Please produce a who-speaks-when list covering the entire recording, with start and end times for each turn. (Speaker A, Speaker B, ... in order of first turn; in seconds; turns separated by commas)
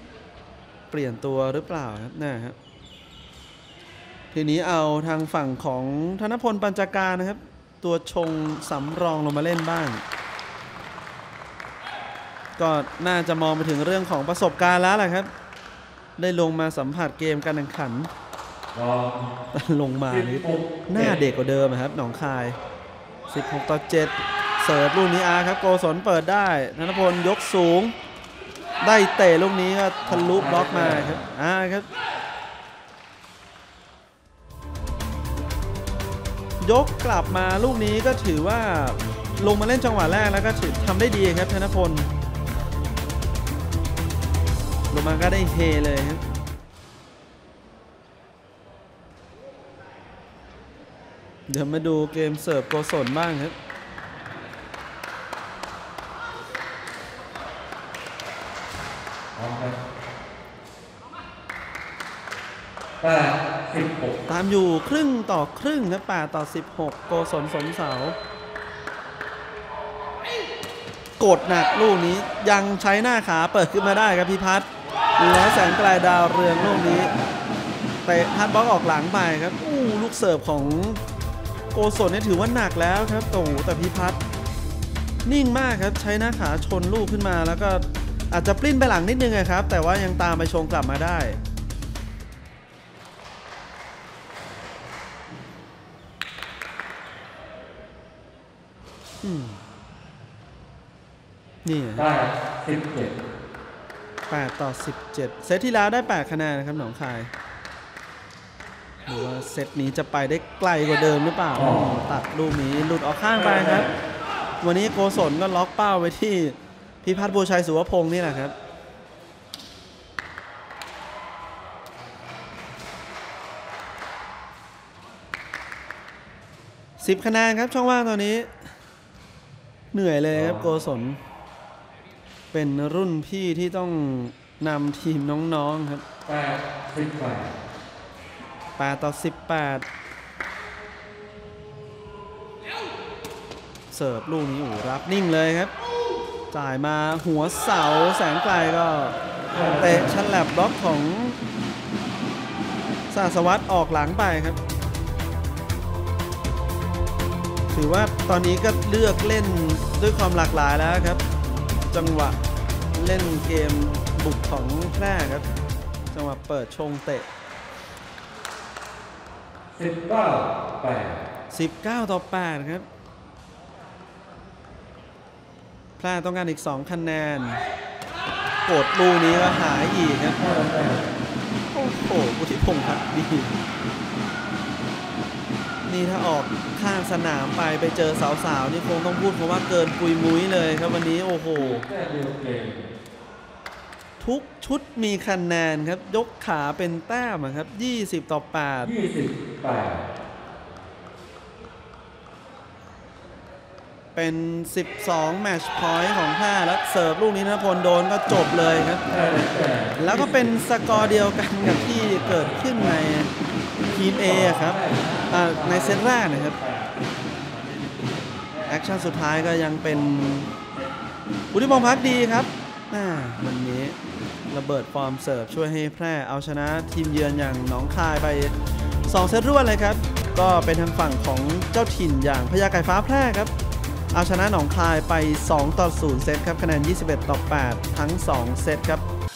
Speaker A: 0.9-2.6, Speaker A: 4.3-10.0, Speaker A: 12.6-15.3, Speaker A: 16.2-18.1, Speaker B: 18.7-19.3, Speaker A: 19.5-22.6, Speaker B: 20.1-21.2, Speaker A: 23.3-27.9, Speaker A: 28.8-31.9, Speaker B: 30.0-31.2, Speaker A: 36.6-42.1, Speaker A: 44.9-46.2, Speaker A: 51.5-53.6, Speaker B: 59.4-59.8, Speaker B: 63.0-64.2, Speaker A: 64.3-68.2, Speaker A: 71.2-77.1, Speaker A: 78.0-81.0, Speaker A: 81.7-84.2, Speaker A: 85.2-91.4, Speaker A: 99.2-99.6, Speaker A: 101.6-102.1, Speaker B: 102.0-103.2, Speaker A: 104.3-107.3, Speaker A: 109.1-113.9, Speaker B: 111.5-112.0, Speaker B: 113.4-113.9, Speaker A: 114.6-118.5, Speaker A: 127.0-128.7, Speaker A: 129.9-131.2, Speaker B: 130.3-130.7, Speaker A: 132.5-136.0, Speaker B: 136.3-137.5, Speaker A: 138.8-139.9, Speaker A: 143.9-145.7, Speaker A: 146.5-149.2, Speaker B: 149.5-150.1, Speaker A: 149.8-151.4, Speaker A: 153.1-154.6, Speaker A: 157.7-161.2, Speaker A: 161.9-162.4, Speaker A: 162.9-165.5, Speaker A: 166.1-167.3, Speaker B: 169.7-171.3, Speaker A: 171.5-172.9, Speaker A: 176.0-177.6, Speaker A: 178.7-180.4, Speaker B: 180.4-181.1, Speaker A: 181.7-183.6, Speaker A: 185.9-191.8, Speaker B: 191.6-192.9, Speaker A: 194.2-198.9, Speaker B: 198.8-200.1, Speaker A: 204.2-209.0, Speaker B: 209.1-213.0, Speaker A: 210.0-213.3, Speaker A: 213.9-214.8, Speaker B: 214.1-220.9, Speaker A: 215.3-216.6, Speaker A: 218.7-220.5, Speaker A: 221.5-224.0, Speaker B: 221.6-222.2, Speaker A: 224.5-228.5, Speaker A: 229.1-233.5, Speaker A: 234.1-239.0